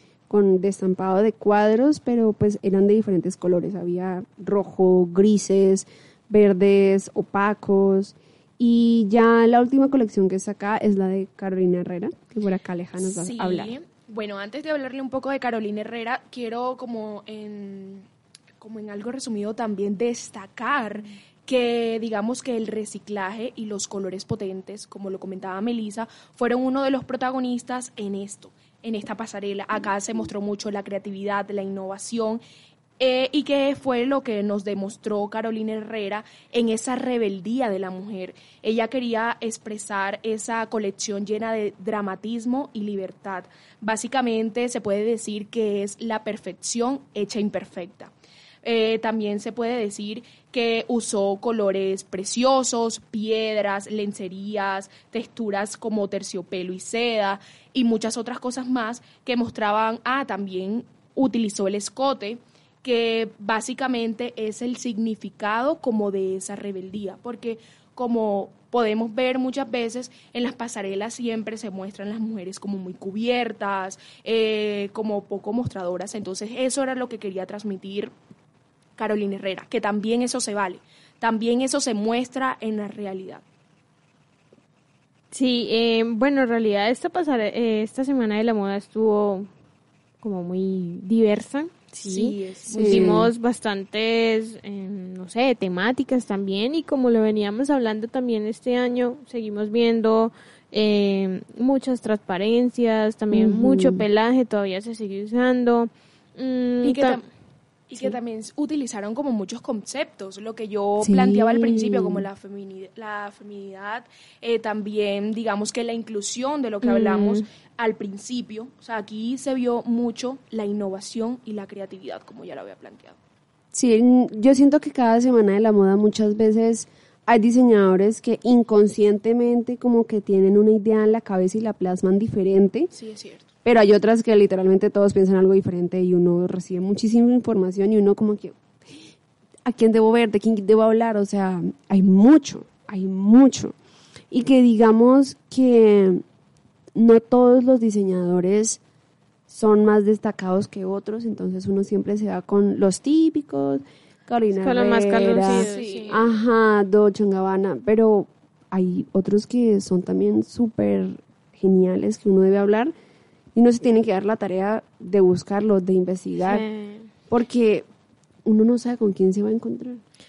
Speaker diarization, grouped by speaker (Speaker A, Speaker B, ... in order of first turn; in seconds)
Speaker A: 0.3-13.8, 92.7-93.3, 103.3-104.0, 111.0-112.2, 123.7-132.9, 133.6-138.6, 139.7-143.7, 144.3-146.2, 146.9-148.8, 149.5-162.9, 163.5-166.7, 167.3-167.9, 168.4-170.0
Speaker B: 13.0-18.1, 18.6-32.4, 33.0-48.1, 48.6-78.1, 79.0-83.4, 92.0-93.2, 106.8-107.2, 107.9-123.2, 132.9-133.5, 155.1-156.3
Speaker C: 85.3-89.5, 90.2-107.2, 116.8-117.4, 154.6-156.2, 166.4-167.1